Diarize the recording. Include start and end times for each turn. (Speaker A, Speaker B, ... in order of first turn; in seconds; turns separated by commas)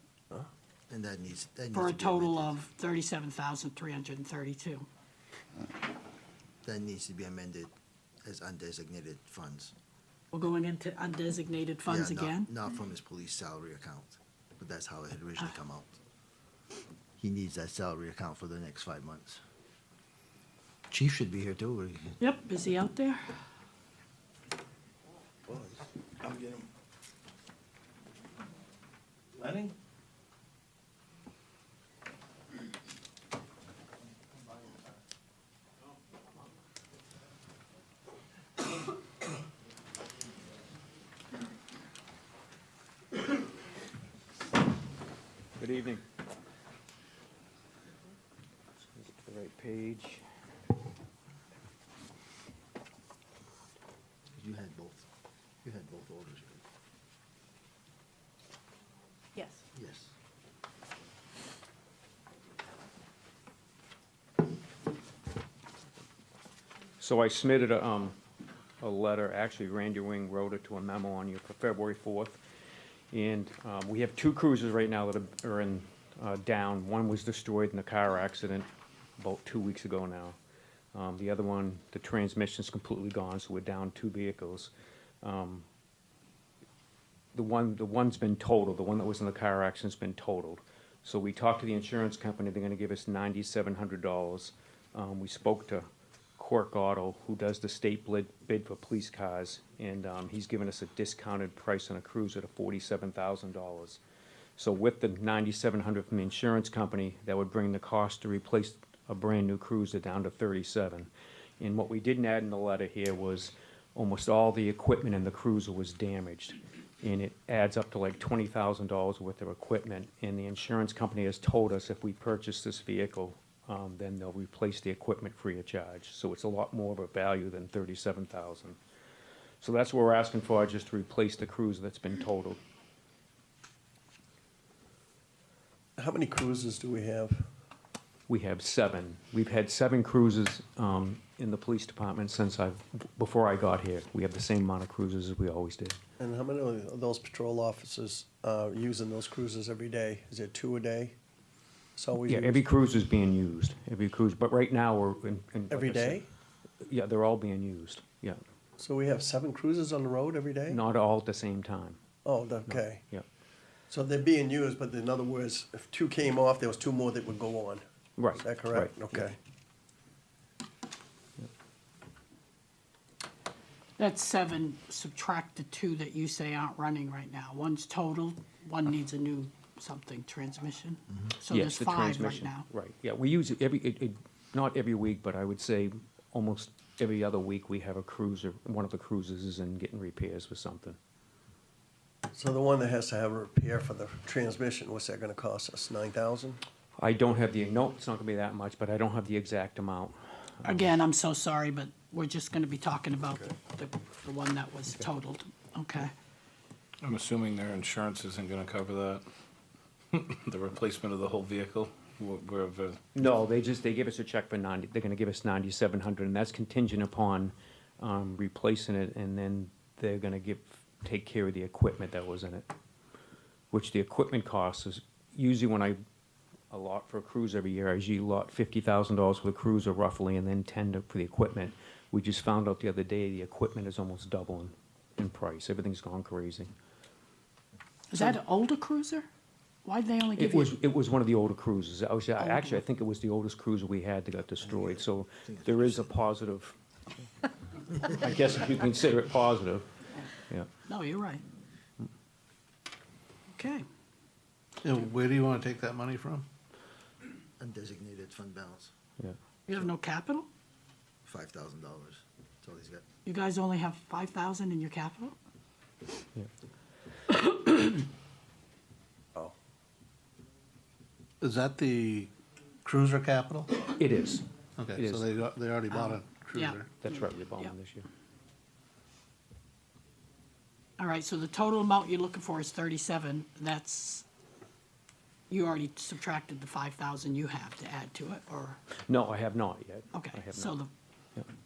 Speaker A: 0.9-2.5, Speaker B: 1.7-4.9, Speaker A: 6.6-9.7, Speaker B: 10.3-12.5, Speaker A: 11.9-16.0, Speaker A: 17.2-19.4, Speaker A: 20.9-22.1, Speaker B: 22.2-23.2, Speaker C: 25.5-26.6, Speaker C: 29.4-29.7, Speaker D: 45.6-46.0, Speaker D: 48.9-50.2, Speaker A: 54.4-55.1, Speaker A: 55.6-56.6, Speaker A: 59.8-60.1, Speaker D: 67.0-68.2, Speaker D: 68.8-72.4, Speaker D: 73.1-80.4, Speaker D: 80.9-84.7, Speaker D: 85.2-85.7, Speaker D: 87.3-104.0, Speaker D: 104.6-128.8, Speaker D: 129.6-132.6, Speaker C: 136.0-137.5, Speaker D: 138.3-146.0, Speaker C: 146.2-151.2, Speaker C: 152.0-152.7, Speaker D: 152.2-156.2, Speaker C: 155.7-156.3, Speaker D: 156.8-158.4, Speaker C: 158.8-160.8, Speaker D: 160.7-162.0, Speaker C: 162.2-163.1, Speaker D: 162.7-163.2, Speaker C: 163.9-167.8, Speaker D: 168.2-169.3, Speaker C: 168.3-169.4, Speaker B: 174.0-182.7, Speaker D: 181.5-191.0, Speaker C: 192.3-196.6, Speaker D: 197.0-200.7, Speaker B: 200.7-206.1, Speaker E: 207.0-209.3, Speaker E: 210.1-213.0, Speaker D: 213.1-222.7, Speaker D: 223.7-226.0, Speaker D: 226.7-236.7, Speaker B: 238.1-239.3, Speaker B: 239.8-240.8, Speaker D: 240.4-246.8, Speaker B: 242.4-242.8, Speaker A: 244.7-246.1, Speaker D: 247.9-249.9, Speaker B: 250.9-251.4, Speaker B: 253.5-253.9, Speaker F: 254.8-256.5, Speaker A: 257.6-258.9, Speaker B: 259.7-260.5, Speaker A: 261.2-263.1, Speaker B: 263.3-265.4, Speaker F: 271.4-272.3, Speaker F: 272.8-273.9, Speaker D: 273.9-275.3, Speaker F: 274.8-276.9, Speaker B: 275.9-277.7, Speaker D: 277.0-278.1, Speaker B: 281.0-284.3, Speaker B: 285.5-288.8, Speaker D: 289.1-290.8, Speaker B: 290.1-290.9